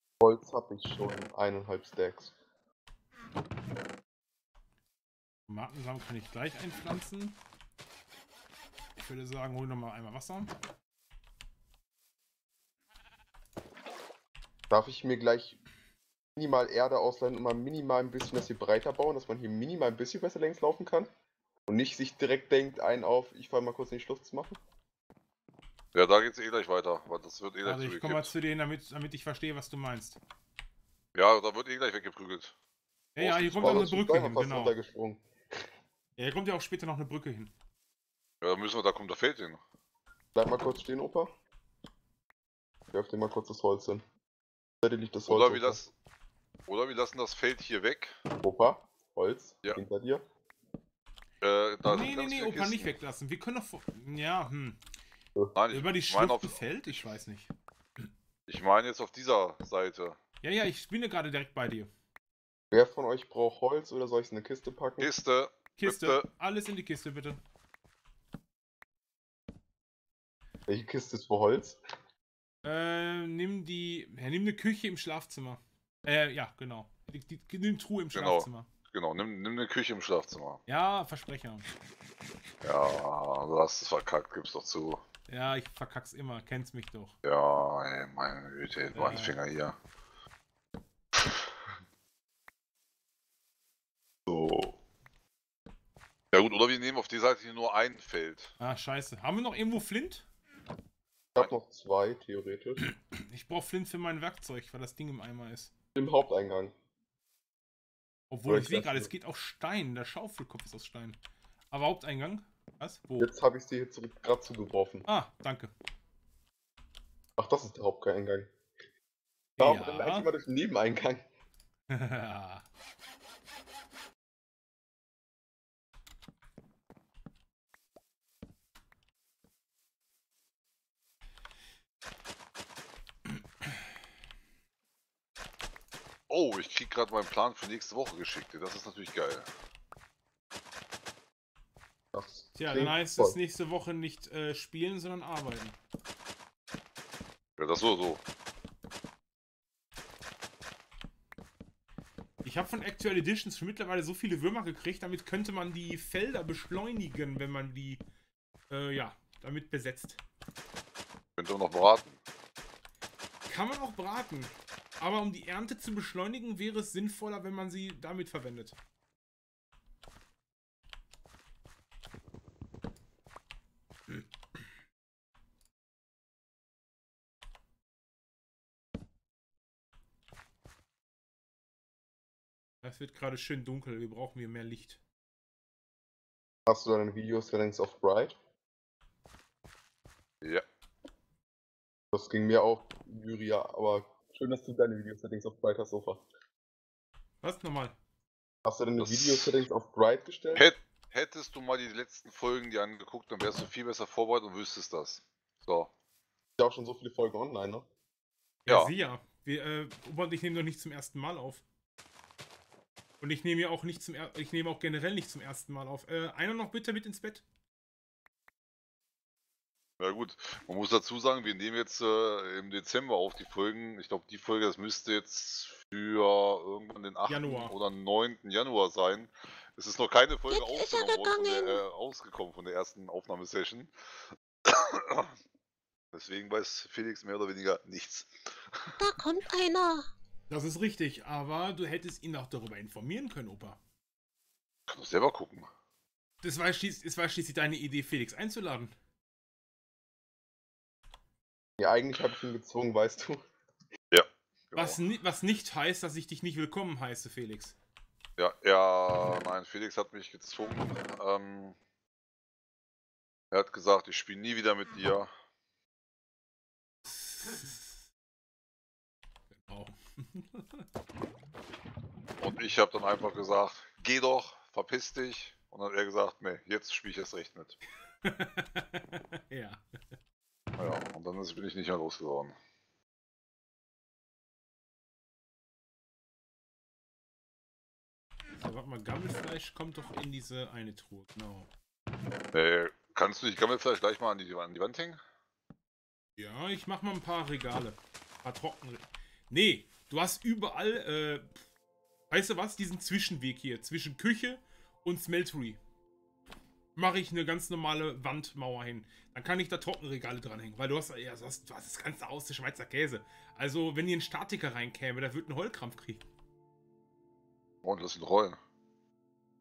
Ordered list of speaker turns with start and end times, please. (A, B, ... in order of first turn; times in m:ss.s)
0:00.2-0:02.3 A
0:05.5-0:07.4 B
0:09.0-0:10.5 B
0:14.7-0:15.6 A
0:16.4-0:21.1 A
0:21.7-0:24.6 A
0:25.9-0:28.3 C
0:27.6-0:30.2 B
0:31.1-0:32.5 C
0:33.1-0:34.7 B
0:33.2-0:33.8 C
0:33.6-0:35.2 A
0:36.2-0:37.5 B
0:38.4-0:39.6 C
0:40.3-0:41.3 A
0:42.9-0:44.0 A
0:44.8-0:45.8 A
0:45.3-0:45.9 C
0:46.7-0:48.1 C
0:48.4-0:50.2 A
0:51.4-0:52.9 C
0:51.8-0:54.8 B
0:55.5-0:56.6 C
0:55.7-0:58.1 B
0:58.5-1:00.2 C
1:00.4-1:01.9 B
1:02.7-1:05.1 A
1:05.0-1:06.3 C
1:05.8-1:07.4 B
1:10.7-1:11.8 A
1:12.6-1:18.7 B
1:18.1-1:20.6 C
1:20.7-1:21.7 B
1:22.6-1:25.0 C
1:25.3-1:27.2 B
1:27.2-1:29.8 C
1:28.9-1:29.4 B
1:34.3-1:34.7 C
1:36.3-1:38.5 C
1:38.6-1:40.2 B
1:41.3-1:42.8 A
1:42.8-1:45.7 B
1:45.9-1:46.7 A
1:48.3-1:51.2 B
1:48.5-1:49.1 A
1:51.7-1:53.3 B
1:53.2-1:55.0 A
1:55.0-1:55.7 B
1:57.4-1:58.5 A
1:59.6-2:00.3 B
1:59.6-2:01.2 A
2:01.9-2:02.6 B
2:16.3-2:19.5 C
2:22.1-2:23.4 A
2:22.5-2:25.8 B
2:27.6-2:28.2 C
2:32.4-2:38.0 B
2:38.7-2:40.2 B
2:41.4-2:42.2 C
2:43.4-2:48.8 B
3:02.8-3:05.0 B
3:06.6-3:08.3 A
3:12.1-3:16.2 A
3:17.4-3:18.0 B
3:18.6-3:20.7 A
3:19.0-3:19.6 C
3:20.5-3:25.9 C
3:26.6-3:27.8 A
3:28.6-3:31.6 B
3:33.2-3:37.4 B
3:40.0-3:53.9 C
3:47.3-3:47.7 B
3:50.5-3:51.8 D
3:54.6-3:55.3 C
3:56.1-3:59.0 C
3:59.0-4:00.1 D
4:00.5-4:03.8 B
4:04.9-4:05.7 C
4:06.4-4:08.9 B
4:11.8-4:13.4 A
4:14.1-4:15.0 C
4:14.7-4:17.8 B
4:18.4-4:21.8 C
4:23.5-4:25.3 C
4:27.0-4:28.0 B
4:29.6-4:30.8 B
4:32.4-4:37.8 C
4:38.2-4:39.9 B
4:40.8-4:42.5 C
4:48.6-4:51.7 B
4:52.5-4:55.2 C
4:56.4-5:01.6 B
5:02.3-5:05.8 B
5:07.0-5:16.2 B
5:17.8-5:18.6 C